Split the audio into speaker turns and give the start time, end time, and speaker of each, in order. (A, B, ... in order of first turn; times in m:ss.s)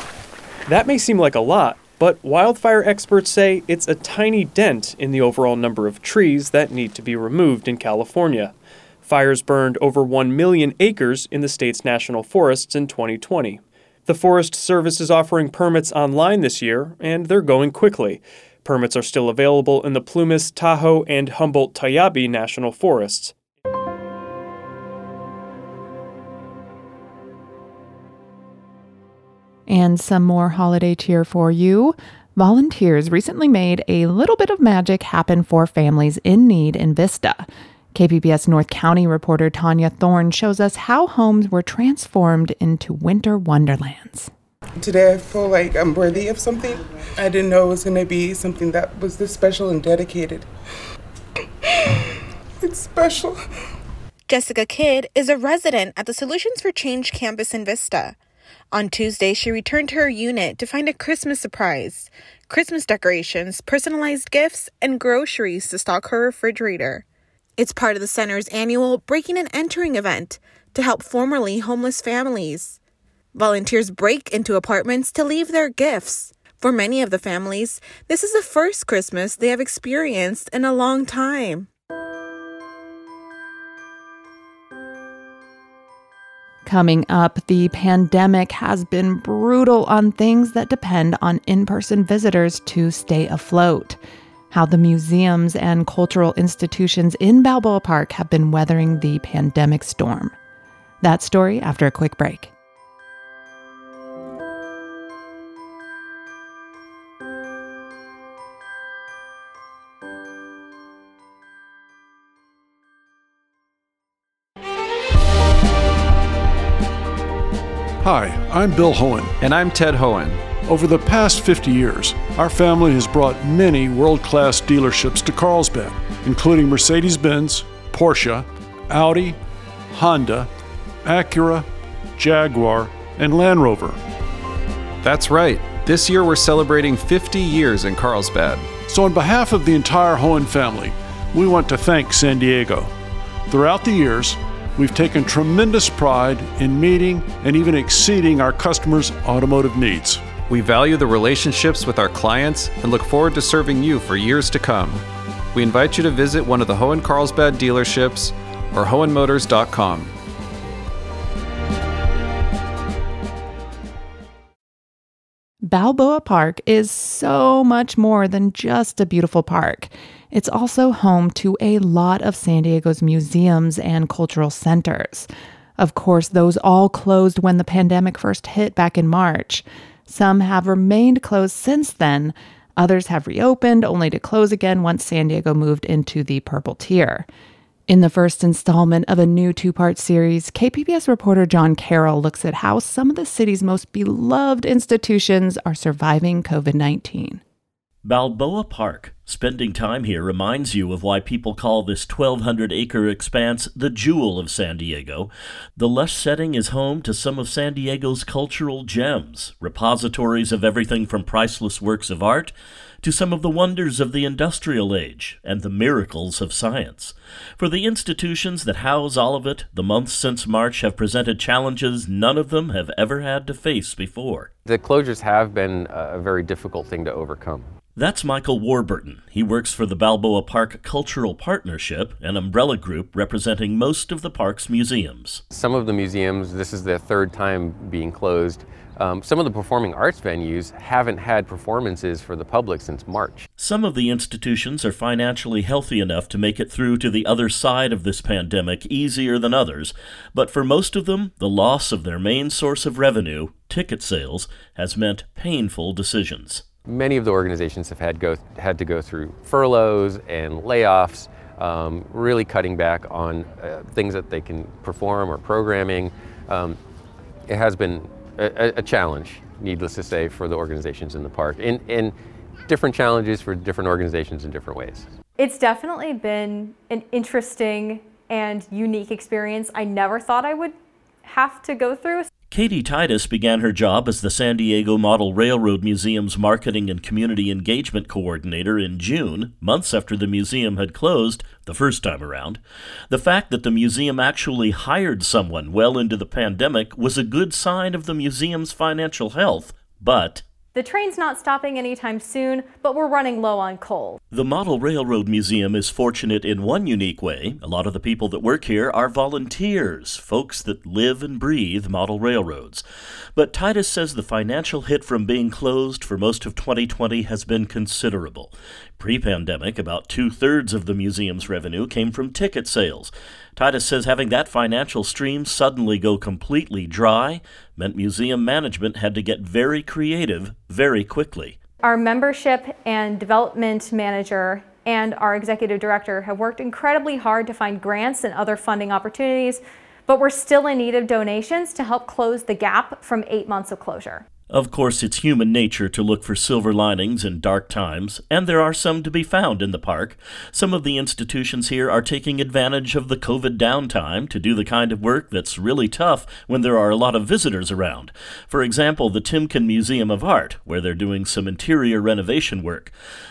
0:00.7-0:23.3 A
0:29.7-0:44.3 B
0:44.8-0:50.5 C
0:52.6-0:53.4 C
0:54.3-0:58.2 D
0:58.7-1:07.0 D
1:07.6-1:12.8 D
1:13.3-1:21.7 D
1:26.6-1:34.0 B
1:34.5-1:40.3 B
1:41.0-1:42.5 B
1:58.0-1:59.3 E
1:59.4-2:00.5 F
2:00.5-2:09.4 E
2:09.9-2:10.5 E
2:11.0-2:14.0 E
2:15.0-2:18.7 F
2:18.8-2:22.9 E
2:23.5-2:30.2 E
2:30.5-2:40.2 F
2:45.6-3:07.3 B
3:07.9-3:17.4 B
3:18.0-3:44.5 G
3:44.7-3:47.7 H
3:48.0-3:55.4 G
3:55.5-4:03.4 H
4:03.6-4:16.6 G
4:16.8-4:26.8 H
4:27.5-4:32.2 H
4:32.7-4:35.1 H
4:35.4-4:40.7 I
4:41.2-4:42.3 I
4:42.5-5:00.4 G
5:00.7-5:04.2 I
5:04.3-5:12.8 G
5:13.3-5:31.6 G
5:31.8-5:44.2 I
5:44.5-6:02.9 G